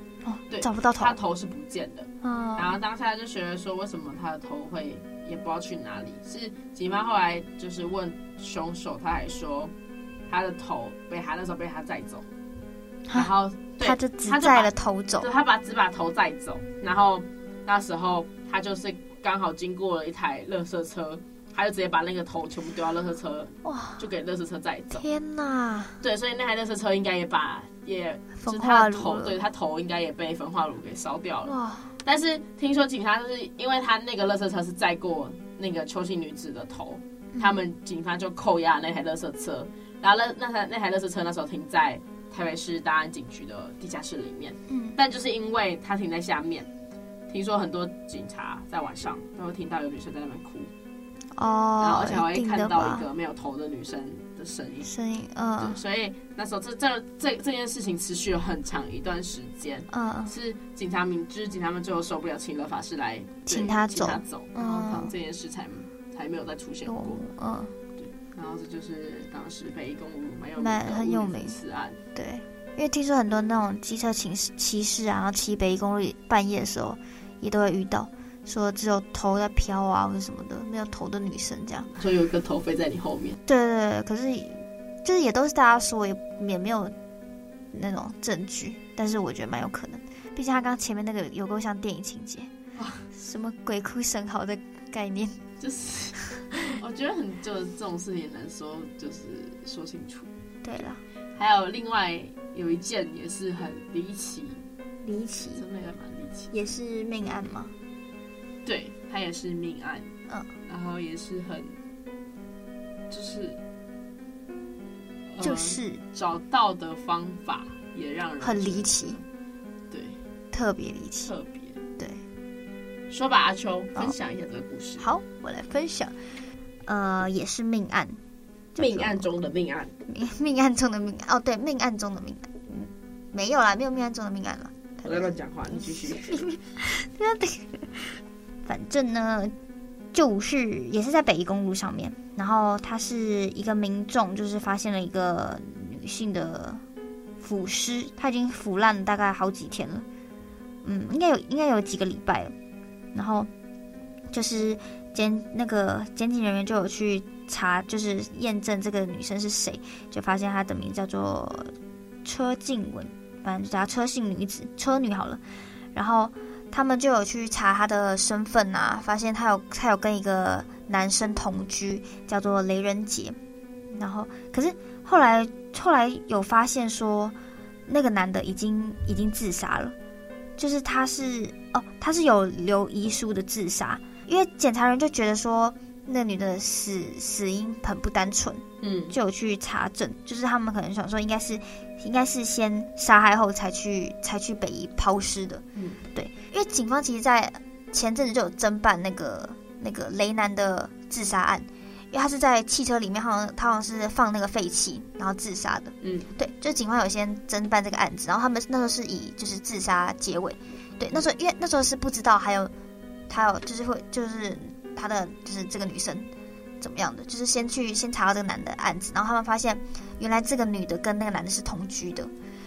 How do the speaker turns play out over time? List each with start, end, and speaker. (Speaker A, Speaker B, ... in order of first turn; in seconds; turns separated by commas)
Speaker A: 0.2-1.2, Speaker B: 0.5-9.7, Speaker A: 2.2-2.8, Speaker B: 10.3-12.2, Speaker A: 13.1-15.3, Speaker B: 13.1-25.1, Speaker A: 23.6-24.0, Speaker A: 24.9-26.0, Speaker B: 26.0-46.7, Speaker A: 28.4-29.4, Speaker A: 31.4-31.9, Speaker A: 37.3-37.6, Speaker A: 44.7-45.0, Speaker B: 47.3-50.7, Speaker A: 51.3-53.1, Speaker B: 51.8-54.9, Speaker A: 54.9-55.8, Speaker B: 55.6-67.2, Speaker A: 59.9-60.3, Speaker A: 63.5-65.1, Speaker A: 66.9-67.7, Speaker B: 68.0-72.0, Speaker A: 70.6-71.6, Speaker A: 72.1-81.9, Speaker B: 82.0-83.4, Speaker A: 83.5-86.9, Speaker A: 87.7-92.5, Speaker B: 92.8-93.0, Speaker A: 93.1-95.4, Speaker B: 95.6-100.3, Speaker A: 100.6-101.0, Speaker B: 101.4-104.6, Speaker A: 105.0-105.6, Speaker B: 105.5-106.5, Speaker A: 106.5-107.7, Speaker B: 108.6-110.1, Speaker B: 110.7-111.8, Speaker B: 113.1-113.6, Speaker B: 115.3-119.2, Speaker A: 115.4-116.0, Speaker A: 118.4-119.2, Speaker B: 119.9-120.2, Speaker A: 120.5-121.3, Speaker B: 121.2-121.8, Speaker B: 123.1-125.1, Speaker A: 125.0-126.2, Speaker A: 126.9-128.2, Speaker A: 128.8-129.3, Speaker B: 128.8-129.9, Speaker A: 130.1-139.5, Speaker B: 135.0-136.5, Speaker A: 140.1-146.8, Speaker A: 147.4-150.1, Speaker A: 150.8-152.5, Speaker A: 153.1-153.5, Speaker A: 154.3-161.7, Speaker A: 162.2-165.4, Speaker A: 165.9-173.4, Speaker A: 173.9-177.4, Speaker A: 177.9-180.0, Speaker A: 180.6-195.6, Speaker B: 188.8-189.2, Speaker B: 195.8-196.0, Speaker A: 196.1-212.7, Speaker B: 206.0-206.3, Speaker A: 213.3-216.3, Speaker A: 216.8-222.3